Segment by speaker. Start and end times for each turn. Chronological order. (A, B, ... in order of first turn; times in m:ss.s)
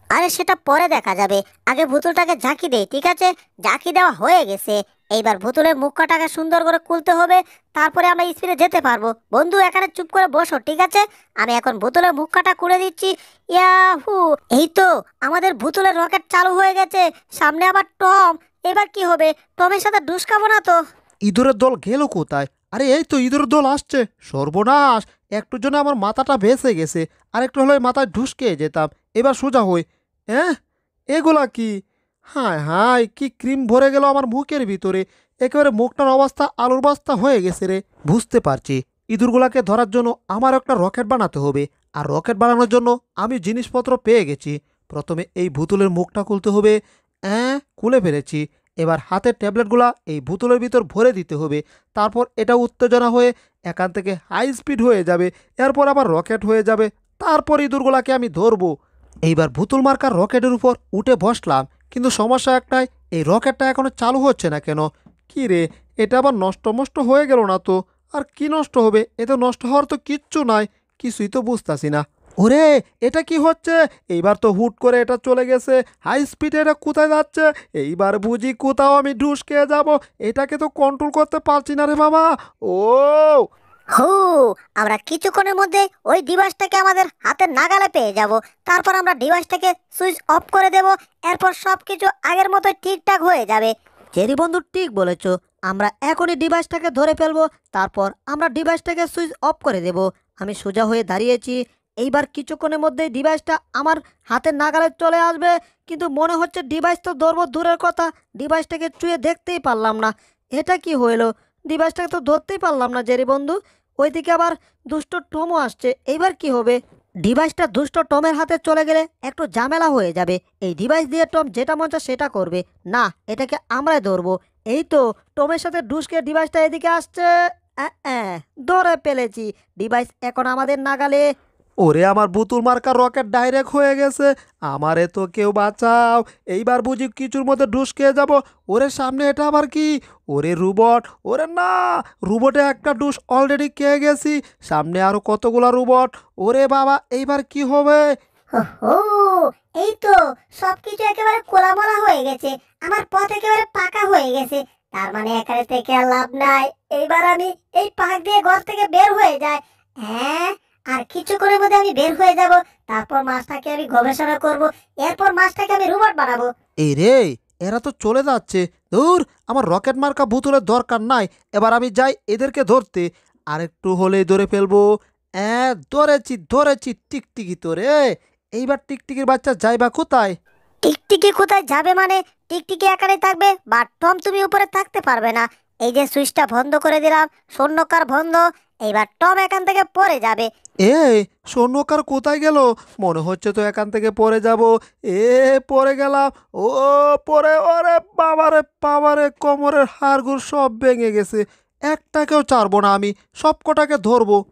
0:00.2-0:20.8 A
0:21.3-0:30.6 B
0:31.1-0:31.7 B
0:32.3-0:46.8 B
0:47.3-0:58.7 B
0:59.3-1:23.4 B
1:24.0-1:33.7 A
1:34.2-2:07.3 C
2:07.8-2:11.2 C
2:11.8-2:28.1 B
2:28.6-2:46.5 A
2:46.8-2:54.8 B
2:55.4-2:57.9 B
2:58.6-3:00.4 B
3:00.8-3:10.5 A
3:10.8-3:24.4 B